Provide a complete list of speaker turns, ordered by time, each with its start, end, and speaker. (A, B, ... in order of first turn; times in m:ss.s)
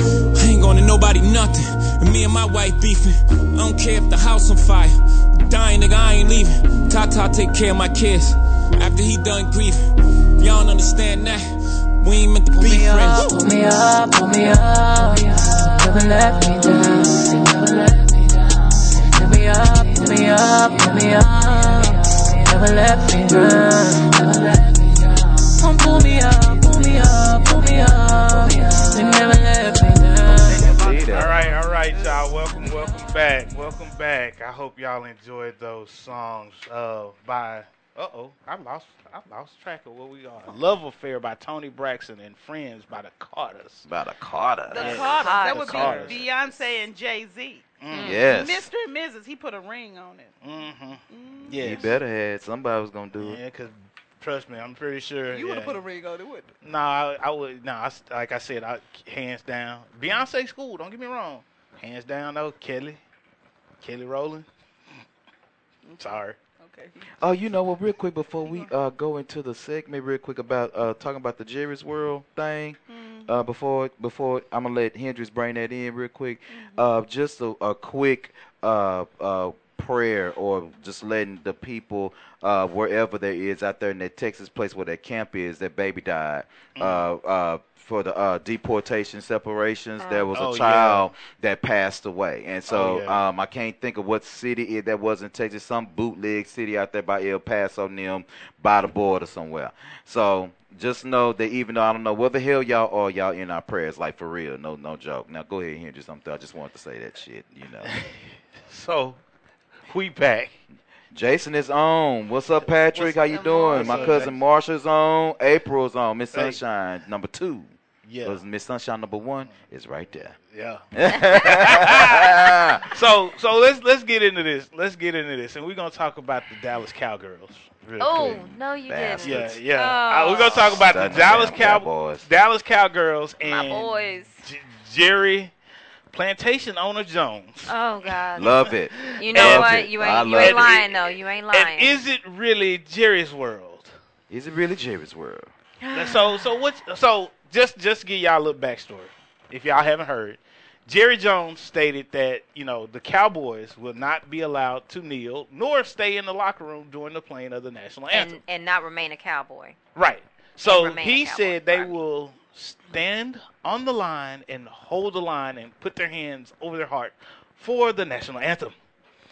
0:00.3-0:13.3 A
0:13.0-0:31.0 B
0:30.4-0:31.3 C
0:31.1-0:43.8 D
0:43.9-0:45.1 C
0:44.7-0:50.3 E
0:44.8-0:46.2 D
0:45.2-0:46.2 F
0:47.8-0:48.2 D
0:47.9-0:48.2 F
0:48.0-0:48.7 C
0:50.4-0:51.9 D
0:51.1-0:51.8 E
0:51.6-0:53.4 C
0:53.2-0:55.8 D
0:55.3-0:56.5 E
0:56.6-1:03.0 D
1:03.8-1:04.4 D
1:05.9-1:07.0 E
1:06.0-1:06.4 D
1:07.2-1:47.9 C
1:12.9-1:13.3 E
1:16.5-1:16.8 E
1:26.8-1:27.0 D
1:30.3-1:31.1 D
1:32.7-1:33.2 D
1:48.7-1:49.2 D
1:49.9-1:50.6 D
1:51.1-1:57.7 C
1:52.9-1:54.3 D
1:53.3-1:54.2 E
1:56.3-1:56.6 D
1:58.0-1:58.4 D
1:58.2-2:00.4 C
2:00.5-2:00.8 D
2:00.9-2:02.8 C
2:01.3-2:08.5 D
2:08.0-2:10.8 F
2:08.2-2:09.6 C
2:09.2-2:15.5 D
2:10.3-2:12.2 C
2:13.4-2:14.4 F
2:16.1-2:17.7 D
2:17.7-2:18.5 F
2:18.4-2:20.8 C
2:19.1-2:23.9 D
2:19.2-2:22.0 F
2:24.3-2:25.5 C
2:25.8-2:26.4 F
2:25.9-2:38.4 D
2:38.1-2:39.8 F
2:39.9-2:48.7 D
2:40.6-2:41.9 F